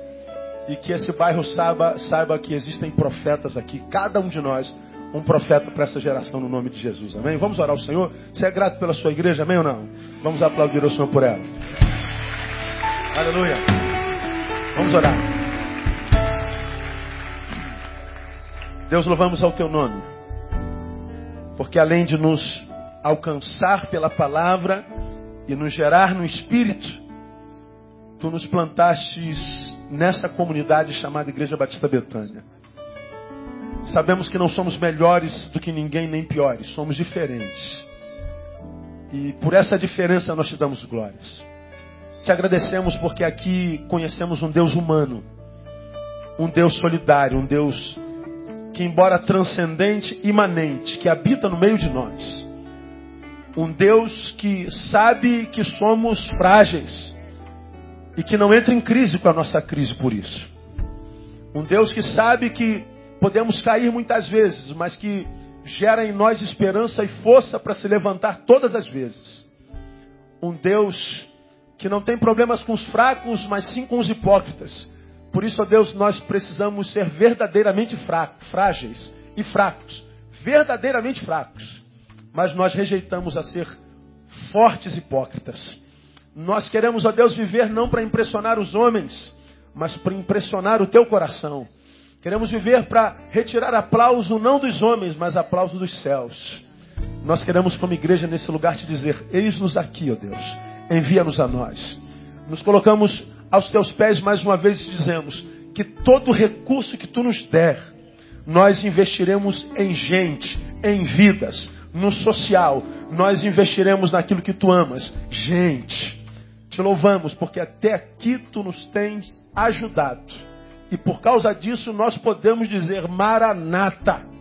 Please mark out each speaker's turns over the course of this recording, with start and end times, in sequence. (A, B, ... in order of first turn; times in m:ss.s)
0:00.7-0:11.5 A
0:13.1-0:13.6 A
0:14.7-0:15.3 A
0:18.9-0:20.1 A
0:21.6-0:24.8 A
0:25.4-0:27.0 A
0:28.2-0:32.4 A
0:33.8-0:37.8 A
0:39.1-0:41.4 A
0:42.2-0:45.2 A
0:46.4-0:48.0 A
0:48.7-0:52.5 A
0:53.6-0:57.1 A
0:58.2-1:00.5 A
1:01.5-1:09.4 A
1:10.4-1:23.7 A
1:24.3-1:25.8 A
1:26.3-1:31.7 A
1:32.2-1:36.6 A
1:37.2-1:47.9 A
1:48.4-2:04.2 A